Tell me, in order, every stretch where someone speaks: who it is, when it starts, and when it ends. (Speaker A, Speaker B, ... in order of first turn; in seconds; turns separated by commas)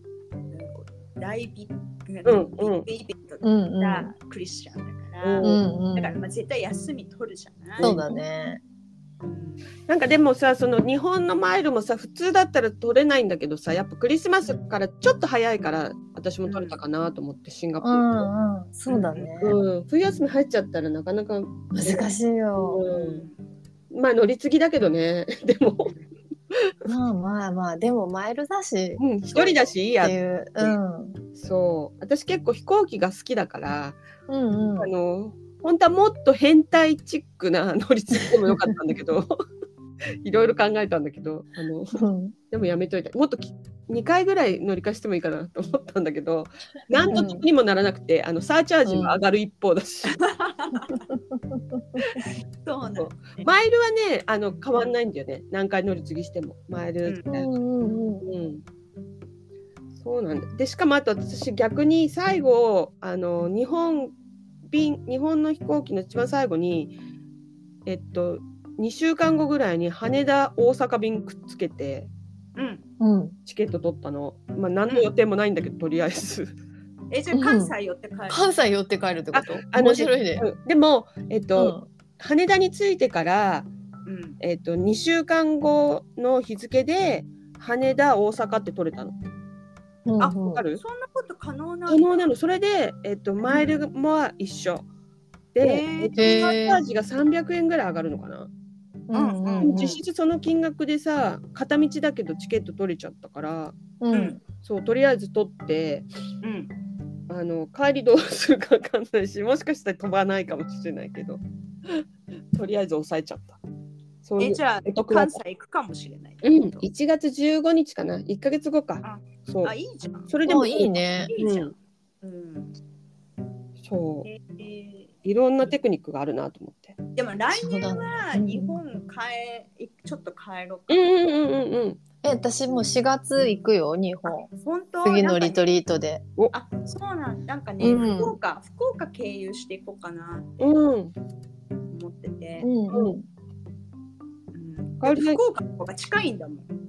Speaker A: 0.5-8.0, Speaker B: 2.2-2.9, Speaker C: 3.4-4.1, Speaker B: 5.2-5.6, Speaker C: 5.4-6.2, Speaker C: 7.8-8.6, Speaker A: 9.2-9.7, Speaker B: 9.9-18.2, Speaker A: 16.4-16.8, Speaker C: 17.8-19.6, Speaker A: 18.9-19.3, Speaker B: 19.4-23.2, Speaker C: 21.7-22.8, Speaker A: 22.9-23.4, Speaker B: 23.9-25.9, Speaker C: 26.8-31.2, Speaker B: 29.0-30.8, Speaker B: 31.4-34.0, Speaker C: 34.3-34.9, Speaker B: 34.8-39.4, Speaker B: 40.2-50.2, Speaker C: 41.9-42.3, Speaker C: 47.1-47.5, Speaker C: 48.8-49.2, Speaker A: 50.1-51.0, Speaker C: 50.9-52.2, Speaker A: 52.6-53.5, Speaker B: 53.0-57.5, Speaker C: 57.3-58.2, Speaker B: 58.2-58.6, Speaker B: 60.0-64.1, Speaker B: 64.7-66.9, Speaker B: 67.8-72.1, Speaker A: 72.5-72.8, Speaker C: 73.0-73.4, Speaker B: 73.5-76.5, Speaker A: 77.1-78.4, Speaker C: 77.3-77.7, Speaker C: 78.3-80.4, Speaker B: 79.3-83.7, Speaker C: 81.5-81.8, Speaker A: 84.0-84.4, Speaker B: 84.4-89.1, Speaker C: 90.0-90.6, Speaker A: 90.2-92.3, Speaker B: 90.3-90.8, Speaker B: 91.9-94.8, Speaker B: 95.5-98.5, Speaker A: 95.6-96.4, Speaker C: 96.2-96.8, Speaker C: 99.1-100.0, Speaker A: 99.1-100.0, Speaker B: 99.6-103.7, Speaker C: 104.0-104.4, Speaker A: 104.1-104.4, Speaker B: 104.6-106.0, Speaker A: 106.4-106.7, Speaker B: 107.3-113.6, Speaker B: 114.2-115.3, Speaker A: 114.4-116.8, Speaker B: 116.4-119.7, Speaker A: 119.0-120.3, Speaker B: 120.3-121.7, Speaker C: 120.5-121.3, Speaker A: 121.2-122.7, Speaker B: 123.8-124.3, Speaker A: 124.2-125.1, Speaker B: 125.2-127.0, Speaker A: 127.2-131.1, Speaker C: 127.5-128.8, Speaker B: 130.9-132.0, Speaker C: 132.2-134.5, Speaker A: 134.5-135.7, Speaker C: 135.0-136.2, Speaker A: 136.5-140.7, Speaker C: 137.8-138.4, Speaker B: 140.6-141.1, Speaker A: 141.9-142.7, Speaker C: 142.6-143.3, Speaker B: 142.9-143.2, Speaker A: 144.5-146.7, Speaker B: 145.0-145.4